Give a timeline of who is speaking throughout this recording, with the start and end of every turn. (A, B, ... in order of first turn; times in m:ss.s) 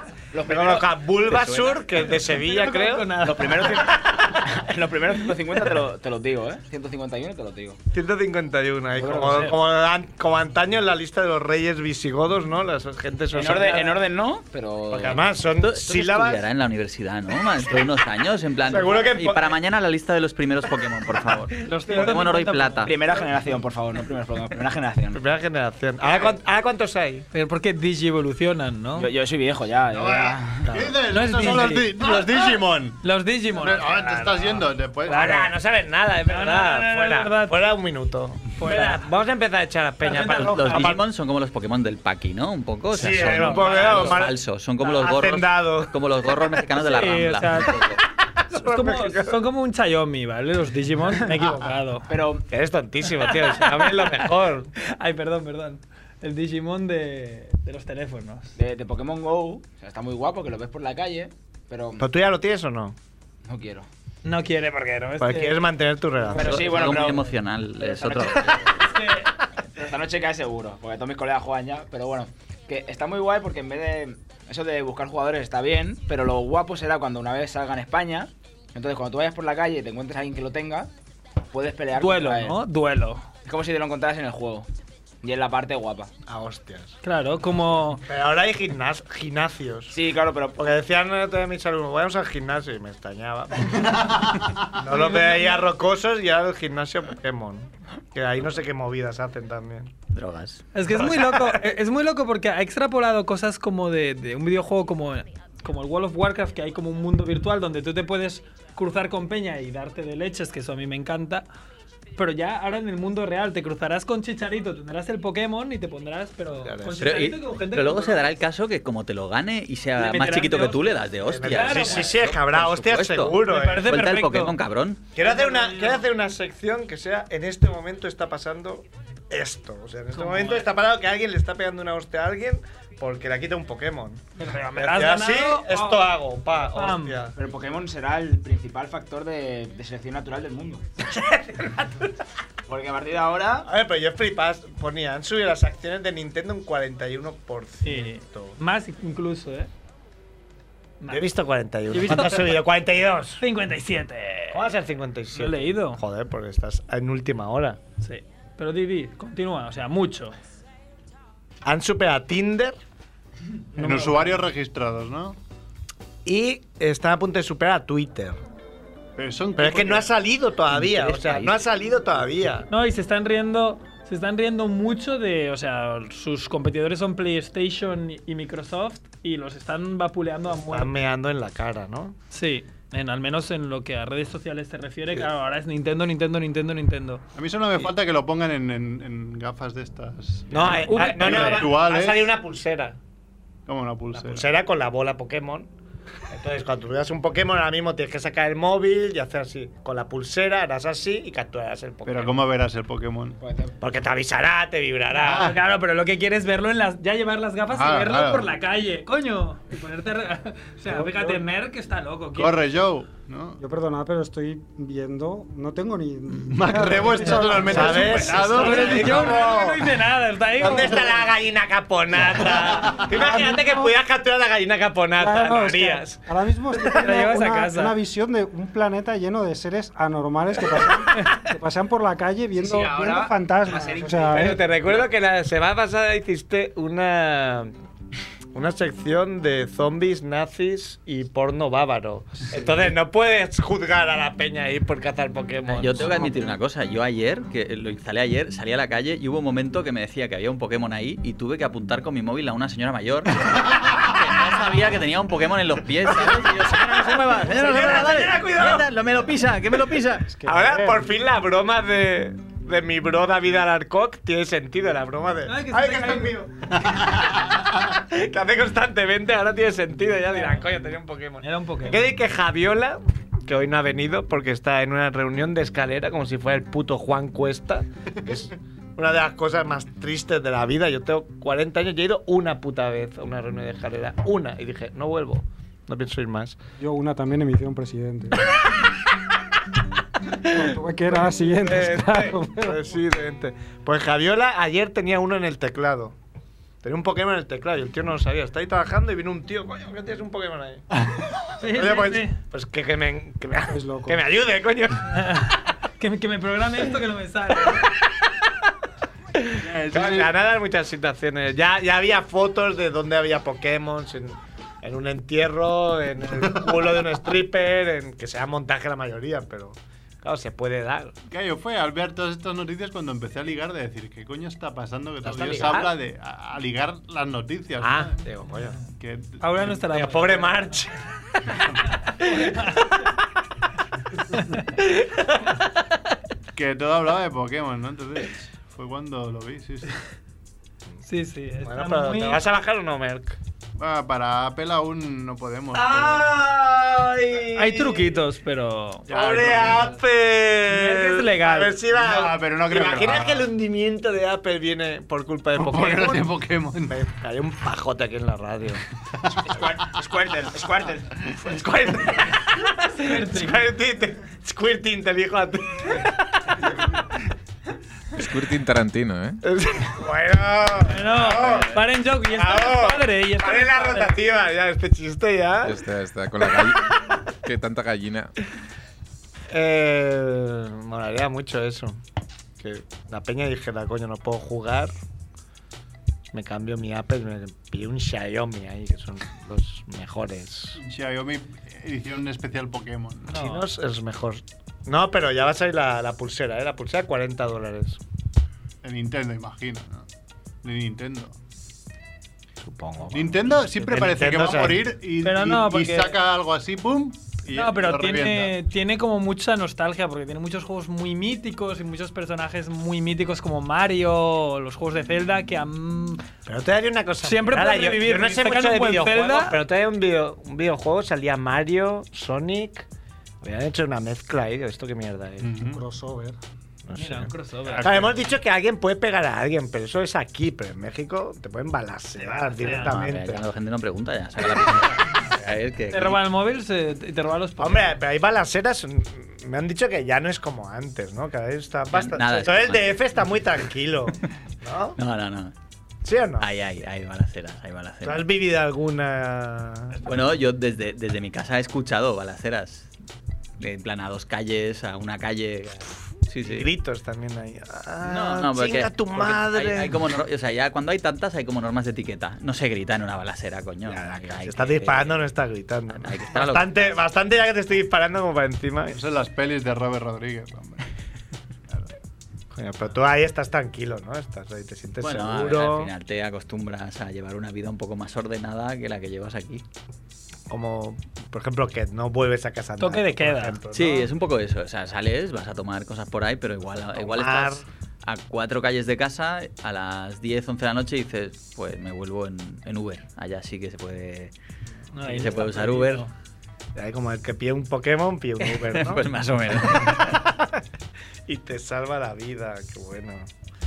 0:00.3-0:01.8 A
0:00.4-0:04.6 B
0:02.2-0:03.9 C
0:03.2-0:07.8 A
0:07.9-0:14.0 B
0:09.0-0:09.6 A
0:13.3-0:15.2 A
0:14.9-0:16.4 B
0:15.6-0:22.9 D
0:18.6-0:19.6 B
0:21.6-0:23.3 C
0:22.8-0:25.2 A
0:25.1-0:27.2 B
0:27.3-0:29.1 C
0:28.9-0:30.8 A
0:29.9-0:35.4 E
0:30.6-0:31.6 B
0:31.0-0:35.5 C
0:35.1-0:41.0 B
0:36.2-0:37.6 C
0:38.6-0:39.0 C
0:40.0-0:40.9 C
0:40.1-0:48.0 D
0:42.9-0:46.0 B
0:43.2-0:44.2 C
0:46.8-0:47.9 C
0:48.4-0:49.4 B
0:48.5-0:52.1 C
0:51.1-0:51.6 B
0:52.1-0:52.4 A
0:52.5-0:54.7 B
0:53.2-0:54.2 C
0:54.8-0:58.5 C
0:58.5-1:02.1 A
1:02.0-1:03.0 B
1:03.4-1:03.9 A
1:04.2-1:05.6 C
1:05.2-1:07.2 B
1:06.3-1:06.6 C
1:06.3-1:07.2 A
1:06.4-1:08.8 D
1:07.8-1:09.3 C
1:09.8-1:20.9 A
1:21.5-1:22.6 A
1:21.9-1:23.2 C
1:23.4-1:24.7 A
1:25.2-1:26.1 A
1:26.2-1:27.0 B
1:27.0-1:28.0 C
1:28.0-1:30.0 B
1:29.9-1:30.7 A
1:30.6-1:34.0 B
1:33.8-1:34.8 E
1:34.7-1:39.9 B
1:34.9-1:35.7 C
1:40.1-1:40.6 D
1:40.7-1:51.4 C
1:41.1-1:41.6 B
1:52.2-1:58.3 C
1:56.6-1:57.2 B
1:57.0-2:05.0 D
2:00.0-2:02.1 C
2:01.2-2:04.0 B
2:03.4-2:04.5 C
2:05.1-2:14.2 B
2:05.2-2:06.0 C
2:10.1-2:10.7 C
2:14.4-2:16.0 C
2:14.8-2:17.4 B
2:16.7-2:17.2 C
2:17.3-2:20.8 A
2:21.0-2:22.1 B
2:22.7-2:23.7 A
2:23.6-2:28.6 B
2:27.8-2:29.7 C
2:31.0-2:31.2 C
2:31.1-2:33.4 B
2:31.9-2:32.6 C
2:33.4-2:34.6 C
2:34.5-2:37.8 B
2:35.3-2:36.0 C
2:38.0-2:40.3 C
2:41.6-2:42.8 B
2:43.8-2:45.4 E
2:43.8-2:44.4 B
2:46.2-2:48.4 B
2:49.2-2:50.1 E
2:49.6-2:52.7 B
2:50.7-2:51.6 D
2:52.7-3:00.9 C
3:00.7-3:02.2 B
3:02.3-3:07.2 C
3:07.3-3:12.3 E
3:10.5-3:13.0 B
3:10.8-3:11.7 C
3:13.7-3:14.4 E
3:14.1-3:15.7 B
3:16.3-3:22.4 B
3:22.0-3:23.4 E
3:23.4-3:23.8 A
3:23.8-3:25.6 B
3:25.1-3:32.7 C
3:25.2-3:25.6 E
3:27.7-3:28.5 E
3:30.9-3:31.4 F
3:32.4-3:33.6 E
3:33.6-3:38.9 F
3:36.4-3:39.3 E
3:37.2-3:41.2 C
3:37.6-3:39.9 B
3:40.6-3:47.0 B
3:42.2-3:43.0 E
3:43.0-3:43.9 F
3:45.2-3:54.6 F
3:46.8-3:48.0 C
3:52.6-3:55.0 A
3:54.3-3:57.7 B
3:58.5-4:06.5 B
4:05.7-4:20.2 D
4:16.1-4:18.9 B
4:20.3-4:21.0 F
4:20.4-4:46.6 B
4:25.4-4:26.4 C
4:31.4-4:32.1 C
4:46.8-4:48.5 F
4:50.4-4:52.9 F
4:50.4-4:56.2 B
4:56.8-5:00.8 B
5:01.6-5:02.4 C
5:01.6-5:05.2 B
5:03.7-5:04.2 F
5:05.1-5:07.9 C
5:09.3-5:21.1 B
5:09.5-5:10.3 E
5:21.3-5:28.2 E
5:25.2-5:25.9 B
5:27.8-5:28.8 B
5:29.0-5:29.8 E
5:29.4-5:30.7 C
5:29.8-5:31.0 B
5:31.5-5:31.8 E
5:32.4-5:32.8 C
5:34.4-5:34.6 C
5:34.8-5:35.6 B
5:36.5-5:40.0 E
5:41.0-5:42.4 C
5:41.6-5:43.4 B
5:43.8-5:46.3 E
5:45.7-5:48.2 B
5:47.5-5:49.1 C
5:49.1-5:50.0 E
5:49.1-5:58.8 B
5:50.7-5:51.7 C
5:51.9-5:53.5 E
5:55.6-5:57.0 E
5:59.4-6:01.1 A
6:01.2-6:07.2 B
6:03.0-6:03.6 C
6:08.1-6:09.4 G
6:09.4-6:15.8 B
6:10.8-6:14.1 C
6:15.6-6:18.3 G
6:16.5-6:17.2 B
6:19.5-6:22.0 B
6:22.6-6:24.9 B
6:26.3-6:30.8 B
6:30.8-6:33.4 E
6:33.3-6:33.6 C
6:33.3-6:38.0 B
6:38.8-6:40.1 E
6:40.6-6:41.4 E
6:42.6-6:44.9 B
6:43.1-6:48.5 E
6:45.2-6:46.2 C
6:47.5-6:56.3 C
6:56.4-7:02.9 B
6:57.2-6:59.6 C
7:03.4-7:05.6 B
7:05.4-7:05.8 E
7:05.7-7:06.4 F
7:06.8-7:13.4 B
7:06.9-7:08.0 C
7:07.6-7:08.0 E
7:12.6-7:16.2 D
7:12.6-7:13.0 C
7:15.9-7:17.9 C
7:17.6-7:25.0 B
7:21.9-7:23.0 D
7:25.0-7:25.5 D
7:26.0-7:26.5 B
7:26.4-7:28.2 D
7:28.0-7:30.1 B
7:30.0-7:32.9 D
7:33.6-7:36.7 D
7:36.4-7:40.0 B
7:38.0-7:45.3 D
7:43.8-7:49.0 B
7:45.9-7:47.0 D
7:48.9-7:50.9 E
7:52.5-7:55.9 B
7:55.0-7:59.6 D
8:00.5-8:04.1 B
8:02.8-8:03.6 C
8:03.7-8:14.3 D
8:06.9-8:07.6 B
8:14.9-8:16.1 C
8:15.0-8:16.1 D
8:16.8-8:20.6 B
8:18.4-8:20.2 D
8:21.3-8:23.3 B